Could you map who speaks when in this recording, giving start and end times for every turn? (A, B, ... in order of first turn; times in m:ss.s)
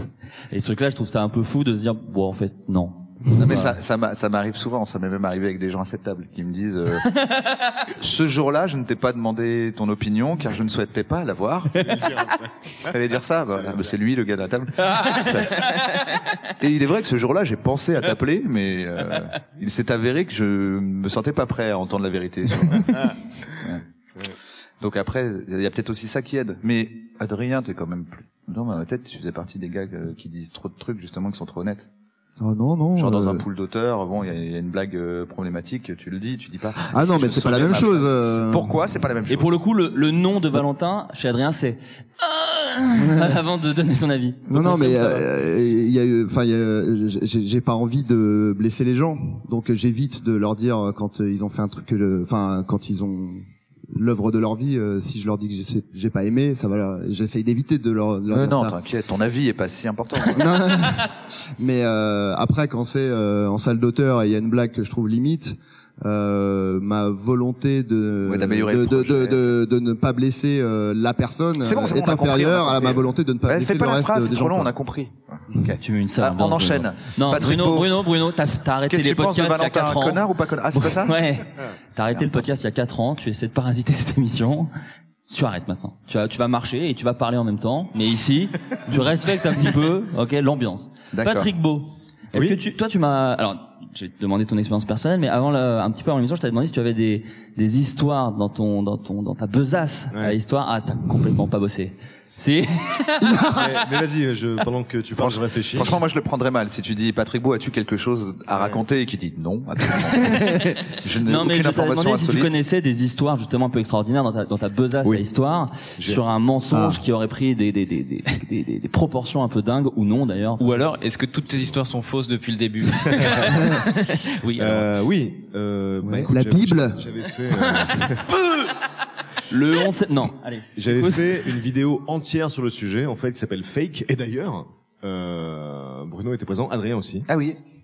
0:00.5-0:03.1 A
0:03.3-0:07.1 B
0:03.4-0:03.7 C
0:08.0-0:12.0 B
0:11.8-0:12.5 D
0:12.8-0:15.6 B
0:13.6-0:13.9 D
0:14.8-0:15.6 A
0:16.6-0:23.8 B
0:24.8-0:31.9 B
0:32.4-0:33.4 C
0:33.0-0:39.6 B
0:36.9-0:38.7 C
0:39.3-0:45.2 A
0:43.0-0:43.4 C
0:44.5-0:58.8 C
0:58.3-1:00.5 B
1:00.3-1:14.7 C
1:08.2-1:09.4 B
1:11.6-1:18.1 B
1:15.8-1:24.7 A
1:18.9-1:21.2 B
1:22.1-1:22.4 B
1:25.3-1:43.2 A
1:31.1-1:31.5 B
1:32.3-1:32.6 D
1:40.1-1:40.4 D
1:43.2-1:43.8 C
1:43.5-1:46.0 D
1:45.2-1:52.5 B
1:48.5-1:48.8 D
1:50.2-2:00.8 A
1:56.0-1:56.2 D
1:56.7-1:57.0 C
2:00.6-2:04.9 E
2:03.1-2:03.5 D
2:04.5-2:08.2 D
2:06.0-2:07.0 C
2:09.5-2:11.3 A
2:10.8-2:17.3 D
2:17.3-2:17.6 B